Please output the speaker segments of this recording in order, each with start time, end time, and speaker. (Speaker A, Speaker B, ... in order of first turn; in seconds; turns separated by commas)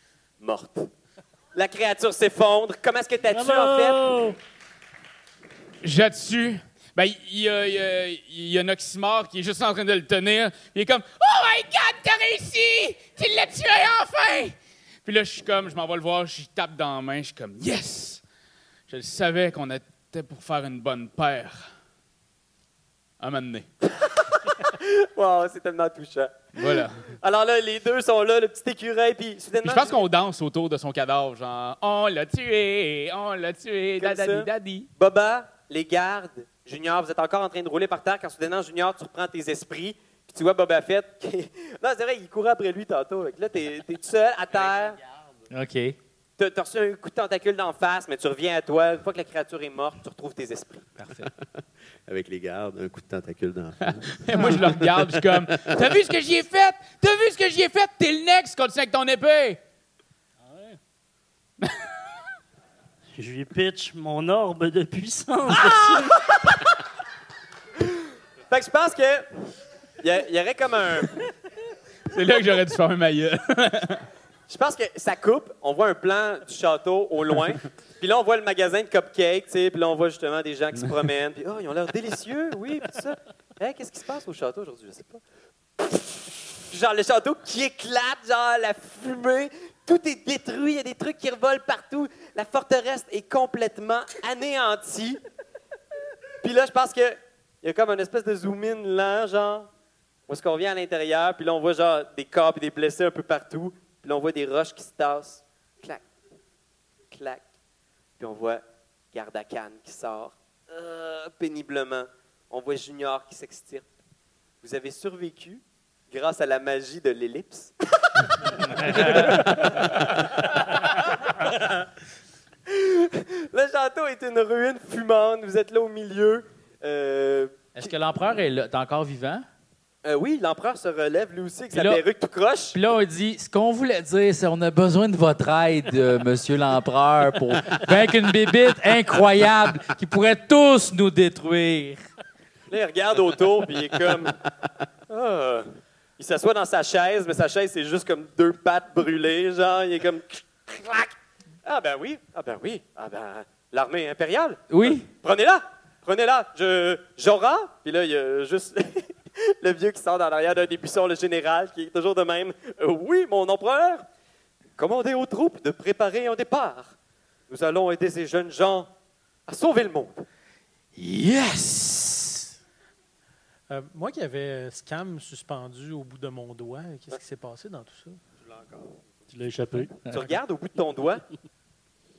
Speaker A: 0.4-0.9, Speaker A: 1.5-4.1, Speaker B: 3.3-4.4, Speaker C: 5.8-18.2, Speaker C: 18.9-21.7, Speaker C: 23.2-23.7, Speaker A: 23.9-30.0, Speaker C: 26.6-27.0, Speaker C: 29.6-34.9, Speaker A: 34.0-45.0, Speaker D: 45.5-46.0, Speaker A: 46.4-50.9, Speaker D: 51.0-51.3, Speaker E: 52.0-55.8, Speaker C: 53.8-59.6, Speaker B: 60.4-60.8, Speaker B: 63.1-66.2, Speaker A: 65.5-66.6, Speaker A: 68.5-69.2, Speaker A: 70.0-71.2, Speaker C: 72.1-74.0, Speaker A: 74.5-85.2, Speaker A: 85.8-95.2, Speaker A: 96.4-99.7, Speaker A: 100.3-106.0, Speaker A: 107.1-107.4, Speaker A: 108.2-113.8, Speaker A: 114.6-121.3, Speaker D: 118.8-119.3, Speaker A: 122.7-127.9, Speaker D: 127.8-129.4, Speaker A: 130.0-132.8, Speaker D: 131.7-132.0, Speaker D: 132.7-142.0, Speaker A: 142.7-144.4, Speaker A: 145.1-164.0, Speaker D: 154.7-155.1, Speaker A: 164.8-166.9, Speaker A: 167.5-168.9, Speaker A: 169.5-170.2, Speaker D: 170.9-172.5, Speaker F: 173.7-178.2, Speaker E: 178.4-179.0, Speaker B: 179.3-180.0, Speaker A: 180.1-181.2